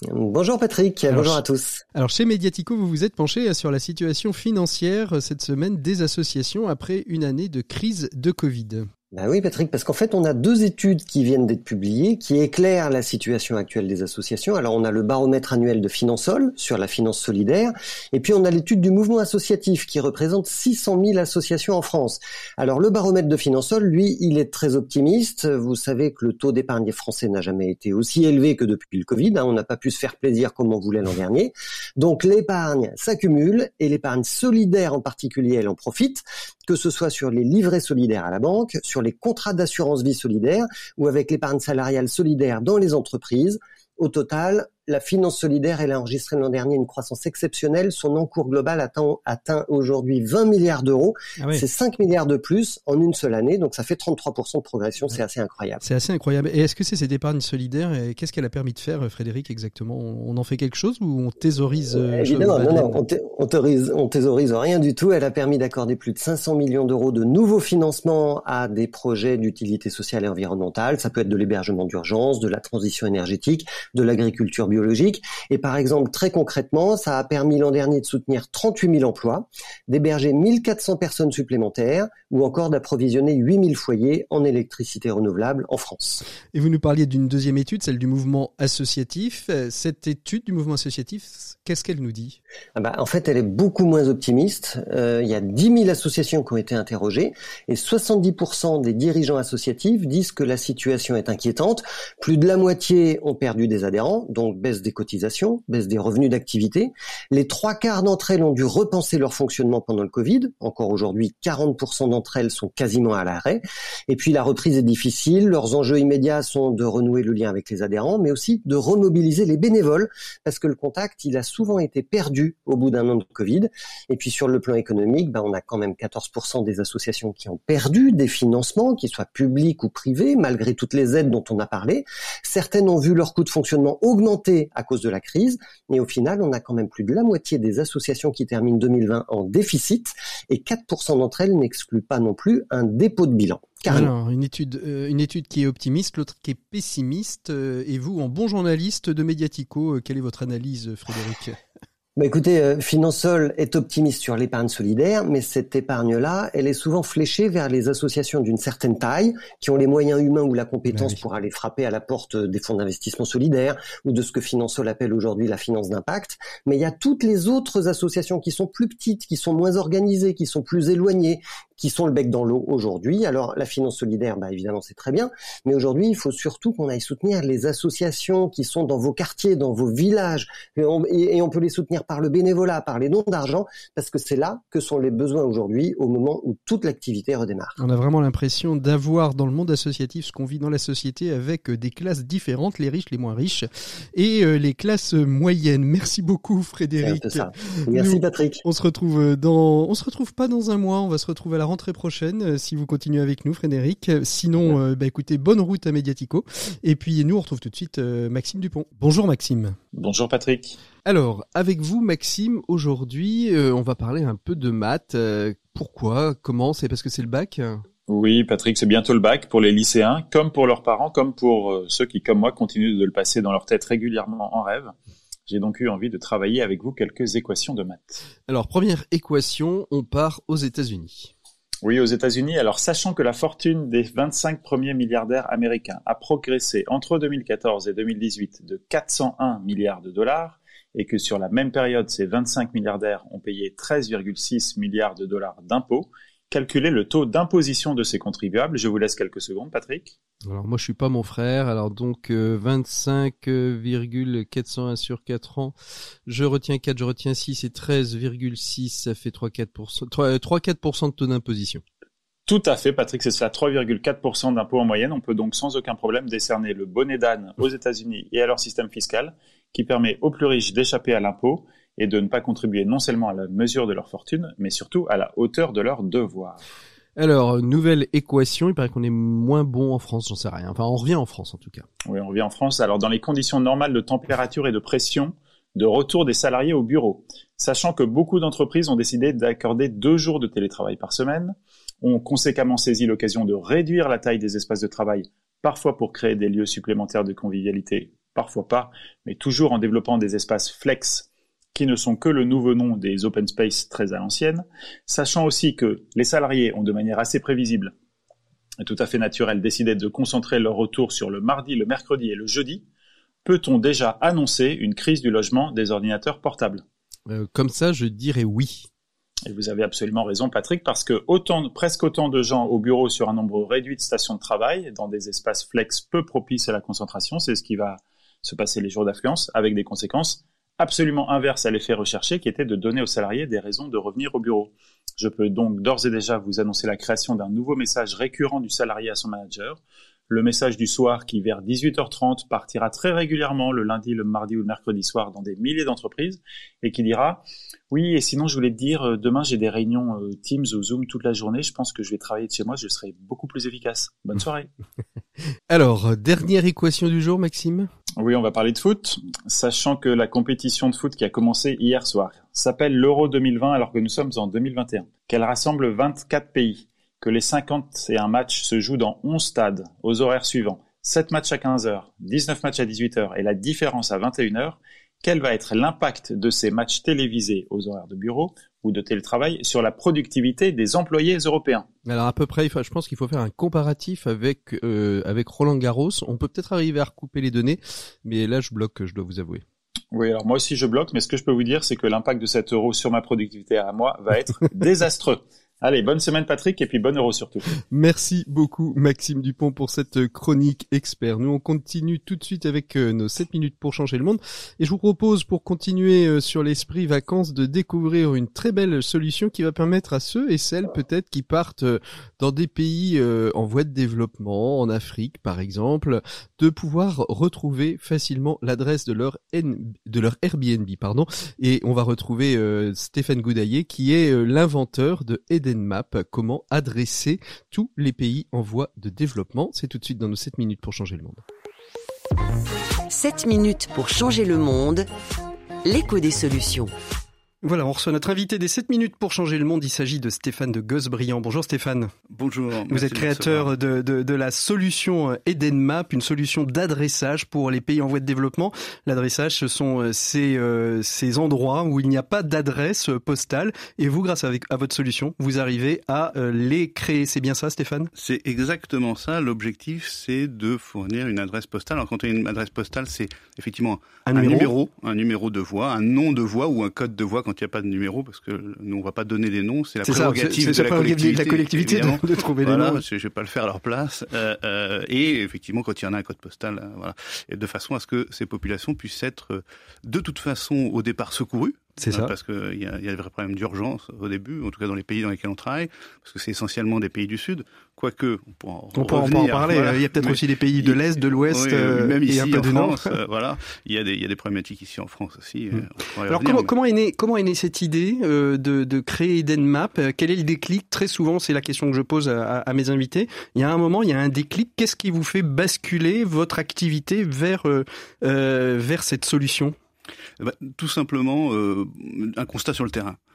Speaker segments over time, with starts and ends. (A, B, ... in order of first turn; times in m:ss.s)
0:00.1-0:01.8 A
0:01.1-0:01.4 B
0:01.9-0:08.9 B
0:09.1-0:55.8 A
0:55.8-1:03.0 B
1:01.9-1:26.2 A
1:26.5-1:32.4 B
1:32.8-2:24.1 A
2:23.9-2:31.6 B
2:32.2-3:07.8 A
2:40.9-2:41.2 B
3:07.8-3:29.8 B
3:17.0-3:18.6 A
3:29.9-3:30.8 C
3:31.0-3:37.8 B
3:38.1-3:44.9 C
3:45.5-3:48.2 C
3:48.5-3:51.3 B
3:51.8-4:10.1 C
4:10.4-4:15.7 B
4:16.3-4:21.8 B
4:22.5-4:36.6 C
4:37.2-4:41.8 B
4:42.1-5:07.9 C
5:08.8-5:12.9 C
5:13.4-5:16.8 C
5:17.3-5:18.9 B
5:19.5-5:54.7 C
5:55.7-5:57.9 B
5:58.2-6:21.9 C
6:22.0-6:29.6 B
6:30.1-6:37.7 C
6:37.9-7:11.4 B
7:13.1-7:15.1 D
7:15.8-7:16.9 D
7:17.6-7:22.1 B
7:22.3-7:23.7 E
7:22.9-7:38.1 B
7:38.2-8:16.7 E
7:44.2-7:44.7 B
7:50.0-7:53.0 B
8:02.0-8:02.3 B
8:08.9-8:13.1 B
8:15.7-8:29.7 B
8:30.4-8:33.2 E